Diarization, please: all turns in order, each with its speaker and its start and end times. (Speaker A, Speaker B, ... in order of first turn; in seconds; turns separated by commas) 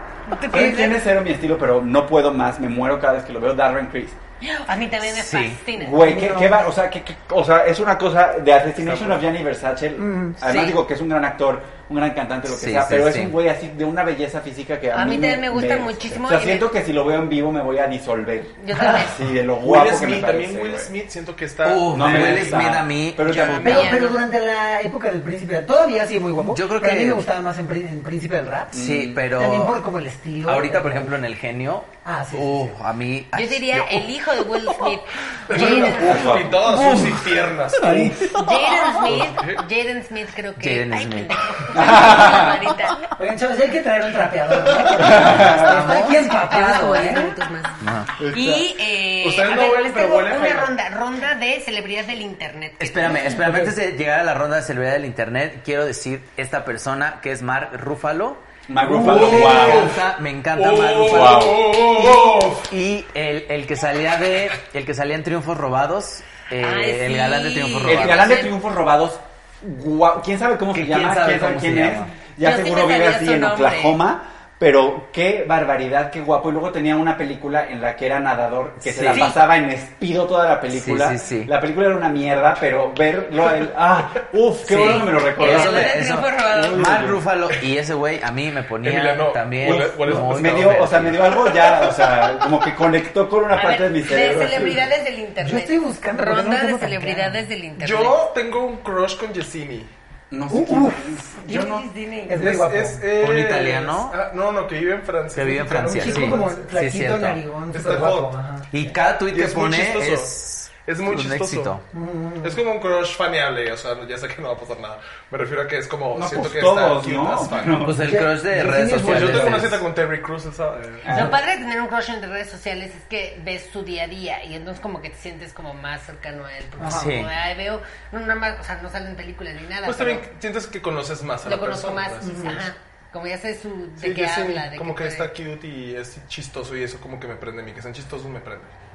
Speaker A: 0.3-1.0, Speaker B: 0.5-4.2, Speaker A: 4.4-6.1, Speaker C: 5.1-5.6, Speaker B: 5.7-20.9, Speaker D: 6.0-6.7, Speaker E: 8.8-9.2, Speaker D: 10.0-10.4, Speaker A: 10.4-10.8, Speaker C: 12.5-13.4, Speaker A: 14.9-16.7, Speaker A: 18.6-19.2, Speaker D: 18.7-19.1, Speaker E: 19.6-22.7, Speaker C: 21.6-23.9, Speaker B: 21.9-24.0, Speaker A: 23.2-24.2, Speaker D: 23.6-31.1, Speaker C: 26.4-27.3, Speaker B: 28.7-29.2, Speaker C: 28.7-29.8, Speaker C: 30.4-34.1, Speaker D: 32.0-32.7, Speaker A: 33.3-36.3, Speaker E: 35.5-38.3, Speaker D: 35.5-36.0, Speaker B: 35.7-37.1, Speaker C: 36.7-37.2, Speaker D: 37.8-38.2, Speaker C: 37.8-38.5, Speaker B: 37.9-38.2, Speaker A: 38.3-43.1, Speaker E: 39.0-39.6, Speaker C: 40.6-41.4, Speaker B: 41.7-42.5, Speaker D: 43.2-47.3, Speaker B: 44.9-45.8, Speaker C: 45.0-46.5, Speaker A: 45.9-53.2, Speaker C: 47.8-48.1, Speaker B: 48.2-48.6, Speaker E: 49.2-50.7, Speaker C: 52.8-58.4, Speaker D: 53.4-53.7, Speaker B: 58.7-60.0, Speaker D: 58.9-59.8, Speaker E: 58.9-60.0, Speaker C: 59.0-68.4, Speaker E: 60.5-62.7, Speaker B: 61.0-61.8, Speaker A: 66.6-68.5, Speaker B: 67.9-87.2, Speaker C: 70.7-72.1, Speaker A: 72.4-74.0, Speaker C: 78.8-79.3, Speaker A: 79.1-79.4, Speaker C: 80.7-81.5, Speaker C: 84.6-91.3, Speaker A: 84.7-86.9, Speaker E: 88.8-92.5, Speaker B: 89.6-94.9, Speaker A: 93.5-98.2, Speaker D: 95.4-97.4, Speaker E: 97.8-99.9, Speaker B: 100.3-101.8, Speaker D: 100.5-101.7, Speaker A: 101.4-102.4, Speaker D: 102.3-103.0, Speaker E: 102.3-106.7, Speaker C: 103.2-104.2, Speaker C: 105.3-107.4, Speaker D: 105.8-108.7, Speaker E: 107.7-108.3, Speaker C: 108.7-111.8, Speaker E: 109.3-111.8, Speaker D: 111.9-112.6, Speaker E: 112.4-117.9, Speaker B: 116.1-118.2, Speaker C: 117.8-119.8, Speaker D: 118.0-119.7, Speaker E: 118.9-121.1, Speaker B: 121.0-121.4, Speaker A: 121.1-130.2, Speaker D: 126.8-127.1, Speaker C: 126.8-127.3, Speaker E: 129.8-132.5, Speaker A: 131.4-135.3, Speaker D: 132.2-132.7, Speaker E: 134.0-138.7